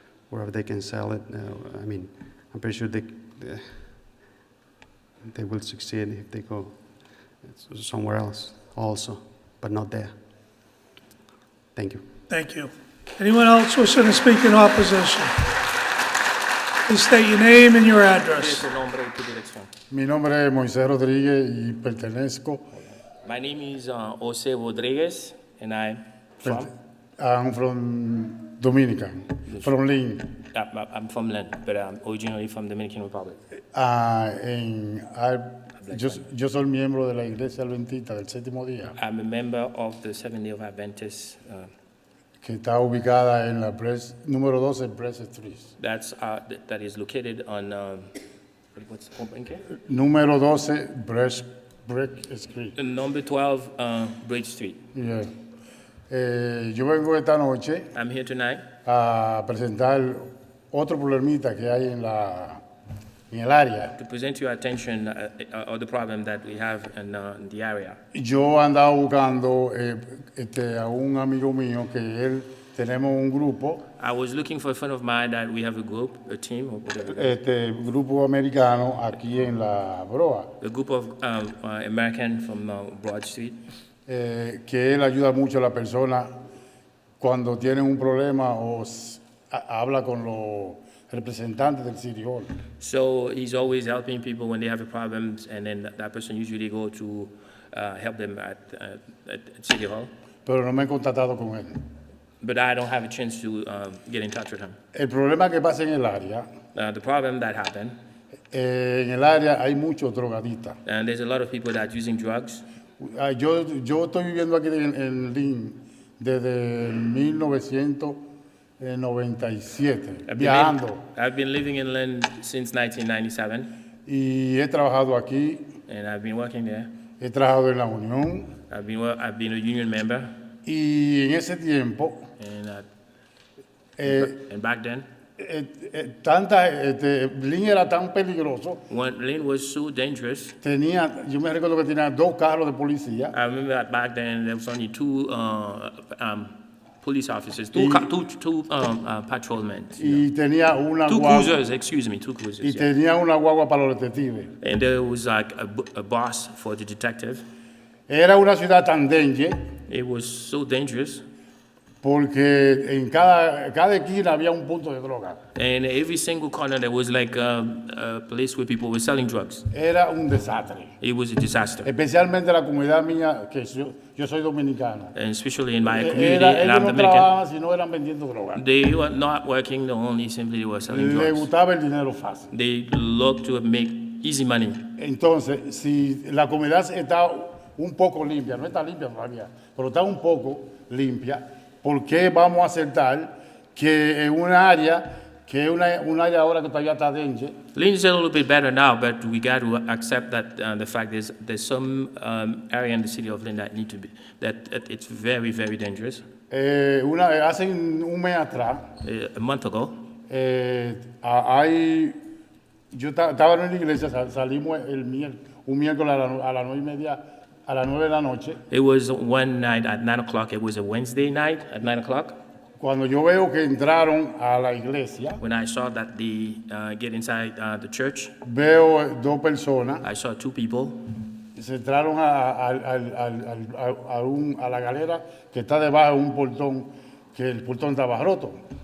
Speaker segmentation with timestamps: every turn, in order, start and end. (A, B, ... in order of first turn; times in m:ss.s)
0:00.3-0:04.1 A
0:05.2-0:10.2 A
0:11.8-0:12.1 A
0:12.3-0:15.5 B
0:16.9-0:18.6 B
0:18.3-0:19.7 C
0:19.9-0:22.7 D
0:23.2-0:26.7 C
0:27.2-0:30.3 D
0:29.5-0:29.7 C
0:30.5-0:33.4 C
0:33.7-0:39.0 D
0:35.8-0:36.2 C
0:39.0-0:41.7 C
0:42.4-0:45.7 D
0:45.8-0:48.1 C
0:48.8-0:49.7 C
0:49.8-0:52.8 D
0:52.8-0:54.8 C
0:54.9-0:55.3 D
0:56.1-0:57.9 D
0:57.9-0:58.6 C
0:58.8-1:02.6 D
1:03.3-1:04.0 D
1:04.0-1:08.0 C
1:08.1-1:13.8 D
1:14.0-1:17.4 C
1:17.1-1:20.5 D
1:20.6-1:23.6 C
1:24.1-1:26.3 D
1:27.2-1:32.5 D
1:32.8-1:40.1 C
1:40.5-1:41.8 D
1:42.4-1:44.8 C
1:44.9-1:46.5 D
1:46.8-1:48.0 C
1:48.5-1:50.8 D
1:50.8-1:52.6 C
1:53.0-1:58.2 D
1:58.8-2:01.0 D
2:00.3-2:03.7 C
2:04.1-2:05.7 D
2:05.9-2:06.9 C
2:07.2-2:08.6 D
2:08.7-2:10.3 C
2:10.7-2:12.2 D
2:12.4-2:12.9 C
2:14.0-2:14.4 D
2:14.0-2:15.0 C
2:15.4-2:18.8 D
2:18.9-2:20.6 C
2:20.6-2:23.4 D
2:23.3-2:30.2 C
2:27.7-2:28.1 D
2:30.0-2:31.6 D
2:31.1-2:32.9 C
2:32.6-2:34.5 D
2:34.6-2:37.4 C
2:38.1-2:39.6 D
2:39.9-2:41.2 C
2:42.0-2:45.4 D
2:45.6-2:49.7 C
2:49.7-2:51.0 D
2:51.0-2:51.9 C
2:51.8-2:55.1 D
2:55.1-2:57.3 C
2:55.9-2:58.6 D
2:58.6-3:01.5 C
3:00.9-3:02.5 D
3:02.5-3:04.8 C
3:05.0-3:17.6 D
3:17.7-3:26.2 C
3:26.5-3:28.9 D
3:29.0-3:30.0 C
3:30.3-3:32.2 D
3:32.9-3:38.6 D
3:38.7-3:42.4 C
3:42.8-3:45.4 D
3:45.4-3:48.3 C
3:48.4-3:50.1 D
3:50.0-3:51.0 C
3:51.6-3:58.6 D